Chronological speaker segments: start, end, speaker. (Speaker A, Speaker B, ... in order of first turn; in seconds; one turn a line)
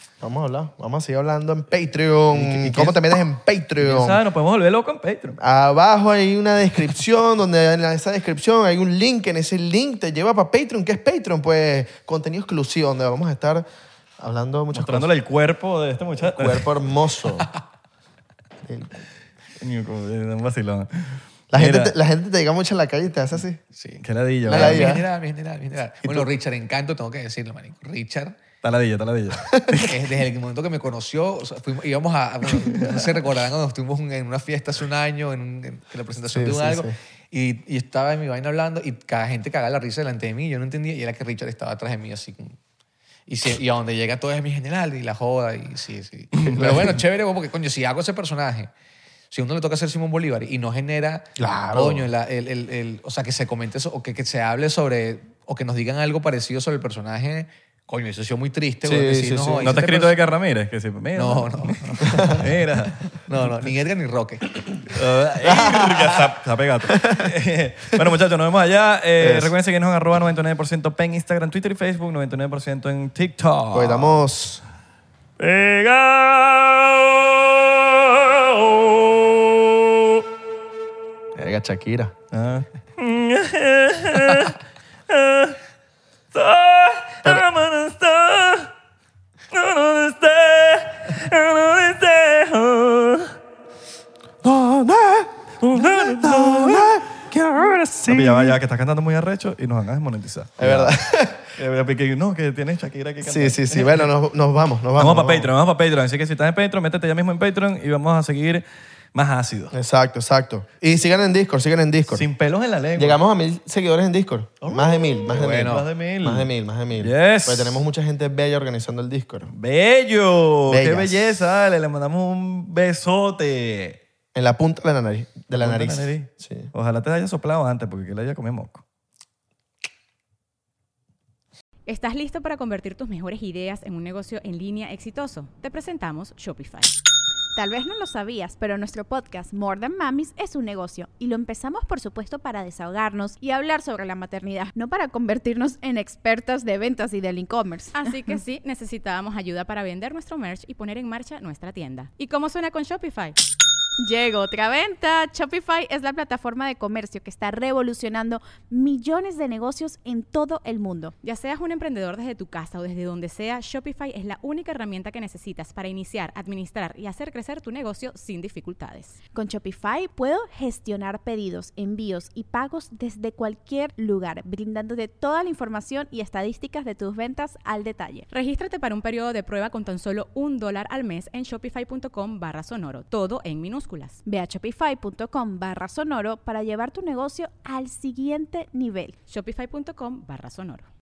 Speaker A: 0.2-4.2
Speaker B: 2.3-3.0
Speaker B: 3.8-5.4
Speaker A: 5.4-13.7
Speaker A: 14.2-15.1
Speaker B: 14.7-16.7
Speaker A: 16.2-17.5
Speaker A: 18.6-19.1
Speaker B: 19.6-21.9
Speaker A: 21.5-23.6
Speaker C: 23.8-28.4
Speaker B: 24.0-25.0
Speaker A: 24.5-25.1
Speaker B: 28.6-29.9
Speaker A: 29.4-29.9
Speaker C: 29.8-42.6
Speaker A: 36.3-36.9
Speaker C: 43.3-48.7
Speaker B: 46.4-46.9
Speaker C: 49.3-60.2
Speaker A: 51.4-52.1
Speaker A: 58.8-59.7
Speaker B: 59.6-63.2
Speaker C: 61.2-62.5
Speaker A: 62.0-62.4
Speaker C: 63.2-64.5
Speaker B: 64.9-74.2
Speaker A: 65.4-66.3
Speaker A: 66.9-67.3
Speaker A: 69.2-69.5
Speaker A: 73.7-74.6
Speaker B: 75.4-80.2
Speaker A: 81.3-82.1
Speaker B: 82.3-84.6
Speaker B: 85.1-85.6
Speaker B: 86.3-88.7
Speaker B: 89.5-93.3
Speaker A: 94.4-98.6
Speaker B: 95.6-101.0
Speaker A: 100.6-101.5
Speaker B: 101.5-104.0
Speaker A: 103.2-105.5
Speaker B: 105.0-109.8
Speaker A: 109.7-112.3
Speaker B: 112.1-113.2
Speaker A: 113.0-119.5
Speaker B: 114.6-117.8
Speaker C: 115.3-115.9
Speaker B: 119.5-124.0
Speaker A: 120.7-121.4
Speaker A: 124.3-126.7
Speaker B: 125.6-128.8
Speaker D: 131.9-136.9
Speaker E: 137.6-148.1
Speaker D: 147.9-153.4
Speaker E: 154.0-161.2
Speaker D: 161.2-169.2
Speaker E: 169.3-178.3
Speaker D: 178.3-184.2
Speaker E: 184.3-189.2
Speaker D: 189.3-190.9